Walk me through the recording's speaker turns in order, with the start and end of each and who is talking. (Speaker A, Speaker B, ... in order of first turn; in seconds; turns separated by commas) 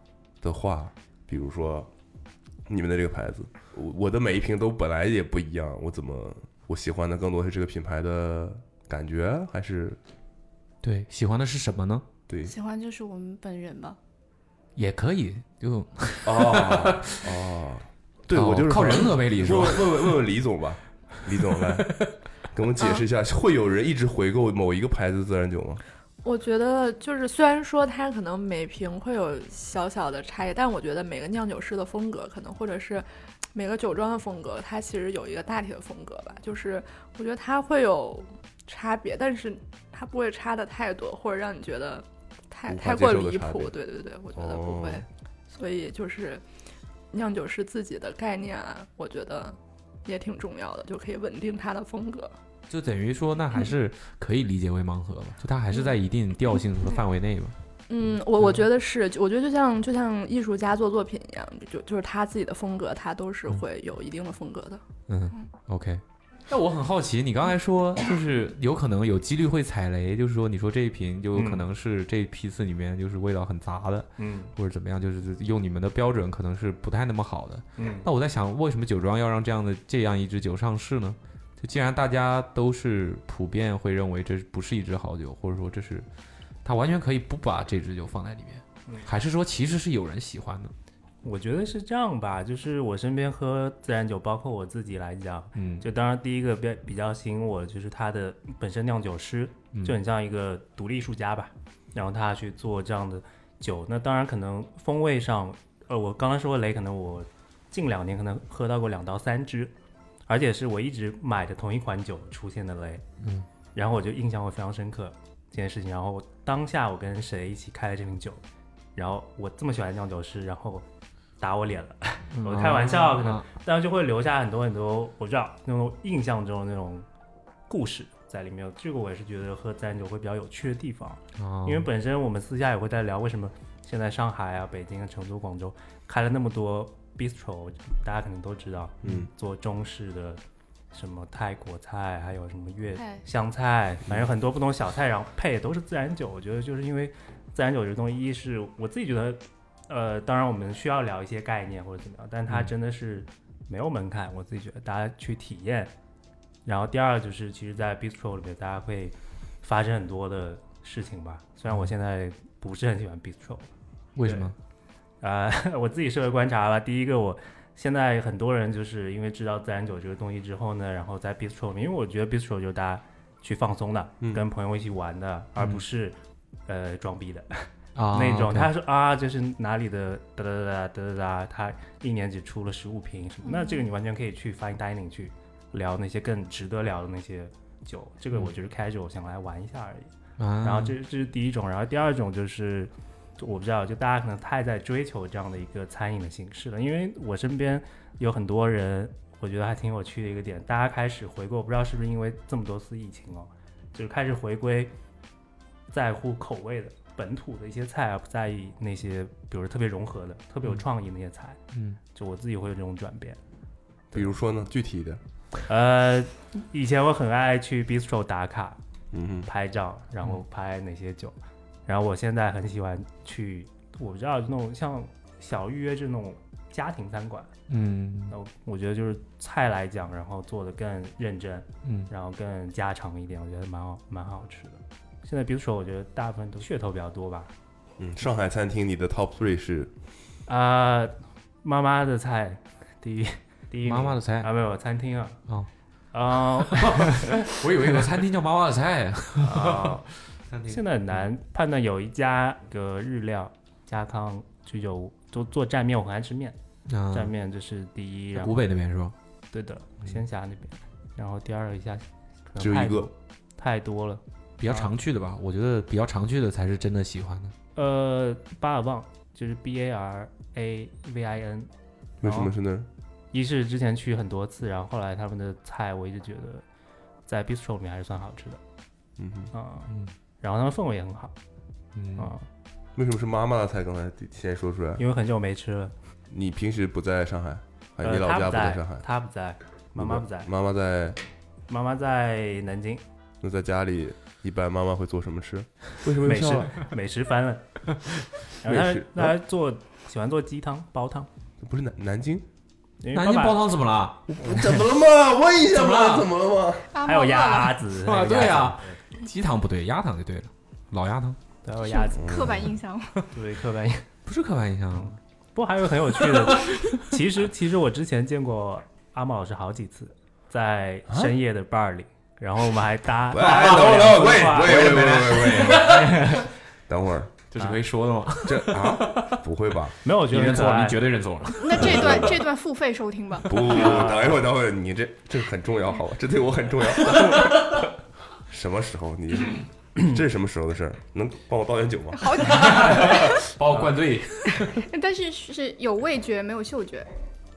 Speaker A: 0.4-1.9, Speaker A: 2.7-10.0, Speaker B: 10.8-12.1, Speaker A: 12.3-12.5, Speaker C: 12.4-14.0, Speaker B: 14.8-17.1, Speaker A: 16.2-22.0, Speaker B: 18.3-20.2, Speaker A: 22.5-25.8, Speaker D: 26.2-46.4, Speaker A: 42.7-43.8, Speaker A: 44.3-45.0, Speaker D: 47.1-52.4, Speaker B: 52.7-57.5, Speaker D: 57.9-64.8, Speaker B: 65.1-86.1, Speaker E: 71.3-71.7, Speaker E: 74.2-74.5, Speaker E: 77.8-78.1, Speaker B: 86.6-90.7, Speaker E: 91.2-109.7, Speaker B: 95.5-95.8, Speaker B: 99.7-100.0, Speaker E: 110.3-113.0, Speaker B: 113.2-113.5, Speaker E: 113.8-118.4, Speaker E: 119.0-120.9, Speaker E: 121.4-127.1, Speaker B: 122.3-123.4, Speaker E: 127.7-140.4, Speaker B: 131.4-131.9, Speaker A: 139.0-139.3, Speaker E: 140.9-155.9, Speaker C: 143.0-143.2, Speaker E: 156.7-163.7, Speaker B: 164.2-164.6, Speaker E: 164.2-164.5, Speaker E: 165.2-176.2, Speaker E: 176.7-190.1, Speaker B: 177.9-178.7, Speaker C: 183.4-183.8, Speaker B: 190.4-191.0, Speaker E: 190.6-204.9, Speaker E: 205.9-211.6, Speaker B: 211.7-212.0, Speaker E: 212.2-213.4, Speaker A: 214.1-215.2, Speaker E: 215.7-218.8, Speaker A: 219.1-219.5, Speaker E: 219.5-221.3, Speaker E: 221.9-227.5, Speaker B: 227.7-228.3, Speaker E: 228.3-237.5, Speaker B: 231.8-232.1, Speaker A: 238.0-239.9, Speaker E: 240.5-245.4, Speaker B: 243.8-244.5, Speaker E: 246.1-247.6, Speaker B: 246.7-251.3, Speaker E: 249.4-250.1, Speaker E: 250.7-256.6, Speaker B: 256.9-257.3, Speaker E: 257.1-258.7, Speaker B: 258.4-259.1, Speaker E: 259.5-264.9, Speaker A: 262.6-263.1, Speaker B: 264.6-267.6, Speaker E: 267.8-271.7, Speaker A: 272.2-272.9, Speaker E: 272.2-272.5, Speaker E: 273.3-276.6, Speaker E: 277.3-278.6, Speaker A: 279.2-279.5, Speaker E: 279.5-281.3, Speaker B: 279.9-280.1, Speaker B: 281.9-282.3, Speaker E: 282.2-282.5, Speaker A: 283.0-285.0, Speaker E: 285.0-285.9, Speaker A: 286.3-289.0, Speaker E: 288.0-290.5, Speaker A: 290.0-291.2, Speaker E: 291.7-293.0, Speaker A: 293.4-296.9, Speaker E: 296.2-297.9, Speaker E: 298.6-301.3, Speaker A: 298.6-299.4, Speaker A: 301.6-302.4, Speaker E: 303.0-303.6, Speaker B: 303.1-304.9, Speaker A: 304.3-306.9, Speaker B: 305.7-306.3, Speaker C: 306.9-307.8, Speaker E: 307.0-309.0, Speaker B: 308.0-311.4, Speaker E: 311.6-312.4, Speaker C: 311.8-313.3, Speaker A: 312.2-312.7, Speaker E: 313.3-314.1, Speaker B: 314.3-315.1, Speaker E: 314.9-326.5, Speaker B: 316.2-317.0, Speaker A: 323.3-326.2, Speaker B: 323.4-326.5, Speaker A: 326.9-327.3, Speaker B: 327.5-329.4, Speaker A: 328.4-330.0, Speaker E: 330.0-331.1, Speaker B: 330.2-332.3, Speaker C: 331.5-333.8, Speaker A: 331.8-332.4, Speaker A: 333.5-337.9, Speaker E: 333.6-334.4, Speaker A: 338.5-343.2, Speaker C: 342.2-343.4, Speaker B: 342.4-344.8, Speaker C: 344.7-347.1